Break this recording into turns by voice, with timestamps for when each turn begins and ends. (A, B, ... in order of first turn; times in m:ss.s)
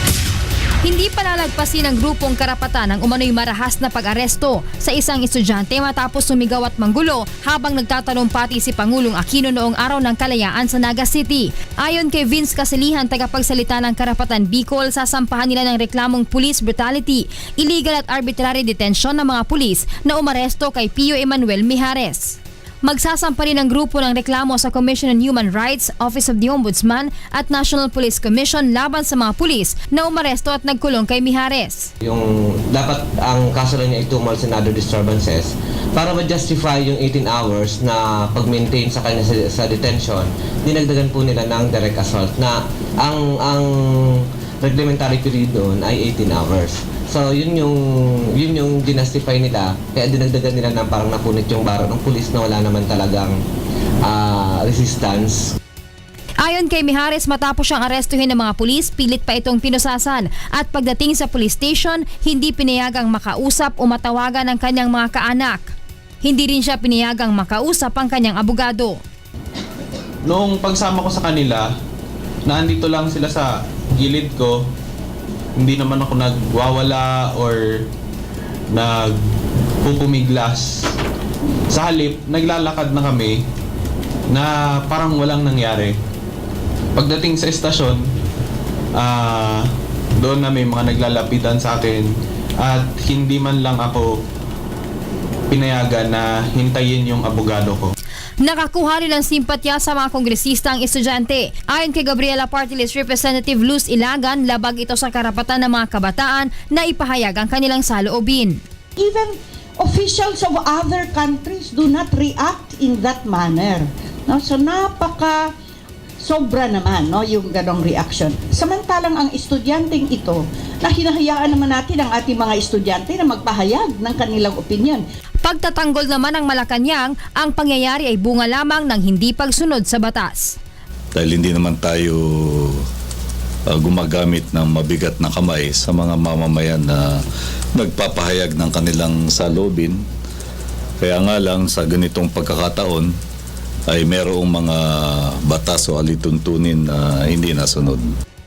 0:00.8-0:31.9 A
0:32.0-0:53.4 B
0:54.0-0:55.6 B
0:56.4-1:09.0 A
1:10.2-1:11.7 C
1:12.5-1:14.6 C
1:15.6-1:17.9 C
1:18.7-1:19.2 C
1:19.8-1:20.9 C
1:21.7-1:23.4 C
1:24.3-1:26.0 C
1:27.0-1:28.1 C
1:29.0-1:29.7 C
1:30.2-1:34.2 C
1:35.5-1:38.0 C
1:38.4-1:48.6 A
1:49.0-1:55.5 D
1:56.2-2:05.0 D
2:05.4-2:10.6 A
2:11.2-2:12.8 E
2:13.7-2:17.2 E
2:17.8-2:20.0 E
2:21.0-2:23.1 E
2:23.9-2:28.0 E